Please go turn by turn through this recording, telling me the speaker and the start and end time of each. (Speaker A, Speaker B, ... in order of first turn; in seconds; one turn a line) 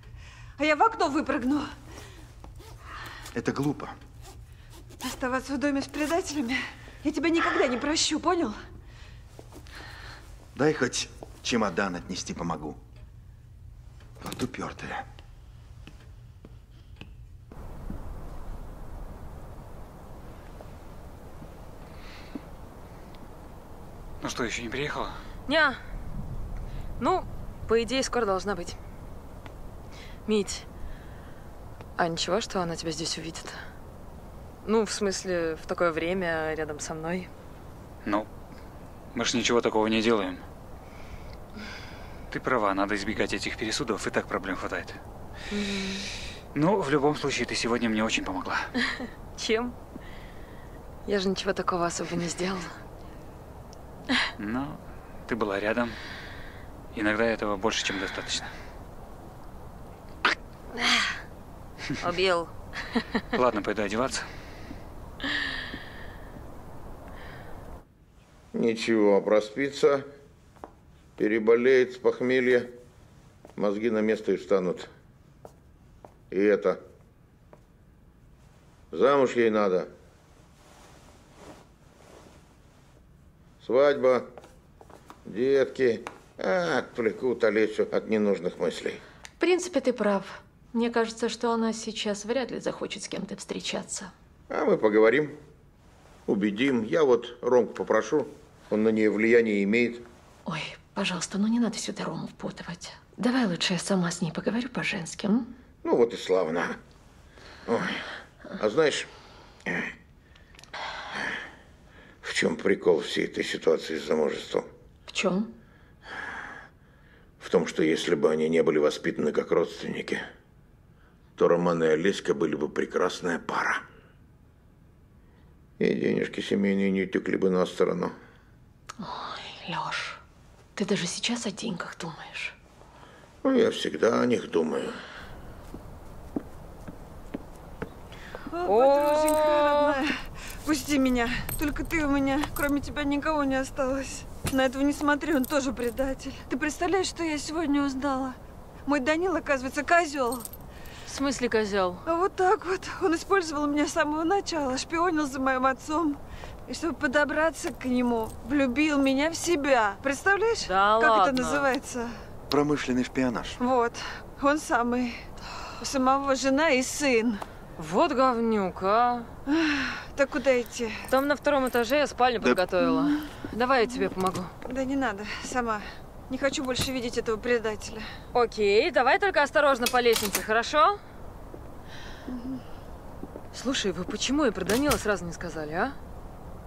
Speaker A: 0.6-1.7
Speaker B: 3.3-3.9
Speaker A: 5.0-8.6
Speaker B: 10.5-12.8
Speaker B: 14.2-15.0
Speaker C: 24.2-25.2
Speaker D: 25.5-25.8
Speaker D: 27.0-28.8
Speaker D: 30.2-30.6
Speaker D: 32.0-33.6
Speaker D: 34.6-37.3
Speaker C: 38.0-38.3
Speaker C: 39.1-40.4
Speaker C: 42.3-45.0
Speaker D: 45.5-46.0
Speaker C: 46.5-48.7
Speaker D: 49.4-49.7
Speaker D: 51.0-52.7
Speaker C: 54.4-56.0
Speaker C: 56.9-58.5
Speaker D: 60.8-61.1
Speaker D: 62.0-63.2
Speaker C: 63.3-64.3
Speaker E: 68.5-70.0
Speaker E: 71.2-72.7
Speaker E: 73.6-74.9
Speaker E: 76.3-76.8
Speaker E: 78.9-79.9
Speaker E: 83.6-84.2
Speaker E: 85.2-89.0
Speaker F: 89.4-94.1
Speaker E: 94.5-95.4
Speaker E: 96.3-100.0
Speaker F: 100.5-105.5
Speaker E: 105.8-106.8
Speaker E: 107.7-108.0
Speaker E: 108.6-109.1
Speaker E: 112.2-114.7
Speaker F: 115.1-115.5
Speaker E: 117.4-120.2
Speaker E: 121.4-123.8
Speaker E: 125.8-128.1
Speaker F: 129.0-130.2
Speaker F: 130.8-132.5
Speaker E: 133.4-134.9
Speaker A: 138.5-150.5
Speaker D: 138.7-140.0
Speaker D: 151.1-152.0
Speaker A: 152.1-162.1
Speaker D: 160.6-161.7
Speaker B: 162.5-163.6
Speaker A: 163.6-165.2
Speaker A: 165.8-167.4
Speaker D: 167.8-169.3
Speaker A: 169.5-171.1
Speaker D: 171.1-174.5
Speaker A: 174.6-178.1
Speaker D: 178.3-181.0
Speaker A: 182.3-182.6
Speaker D: 183.5-185.9